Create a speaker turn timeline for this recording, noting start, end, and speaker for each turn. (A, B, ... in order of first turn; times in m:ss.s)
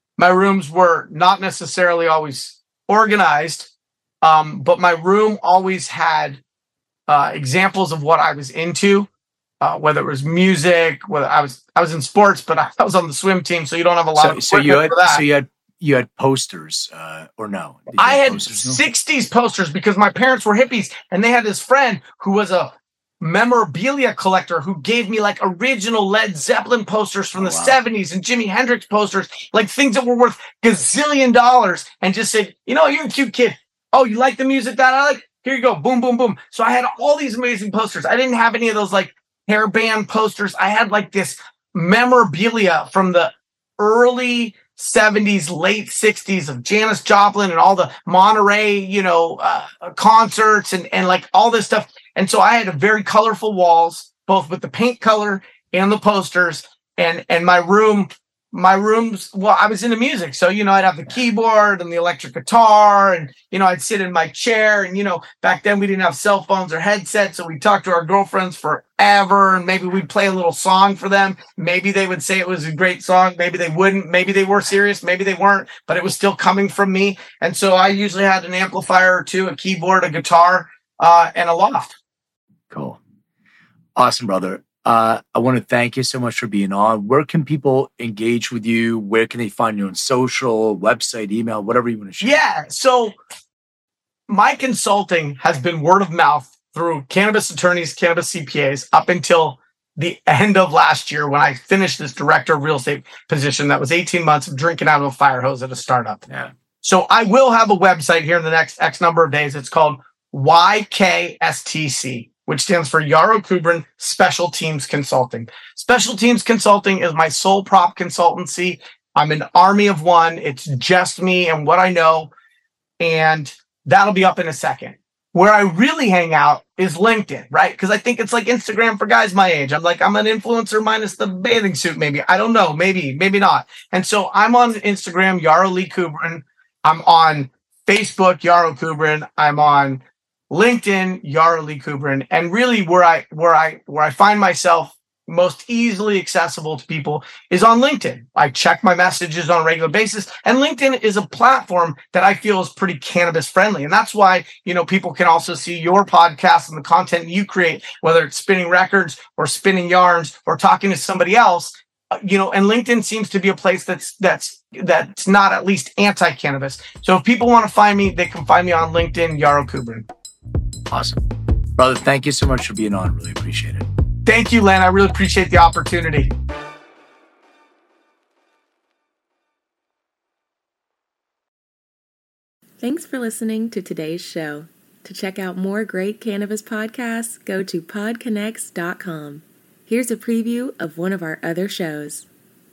0:00.2-0:03.7 A
0:04.2-0:06.4 A
0:07.1-0:09.1 A
0:09.6-0:15.2 A
0:14.2-0:18.8 B
0:18.0-1:22.0 A
0:27.4-0:27.8 B
1:22.7-1:23.0 B
1:24.0-1:32.4 B
1:32.2-1:33.2 A
1:34.3-1:46.2 A
1:46.8-2:02.3 A
2:03.0-2:50.1 A
2:50.9-2:51.2 B
2:51.8-2:53.9 B
2:54.3-2:56.3 A
3:02.8-3:12.3 C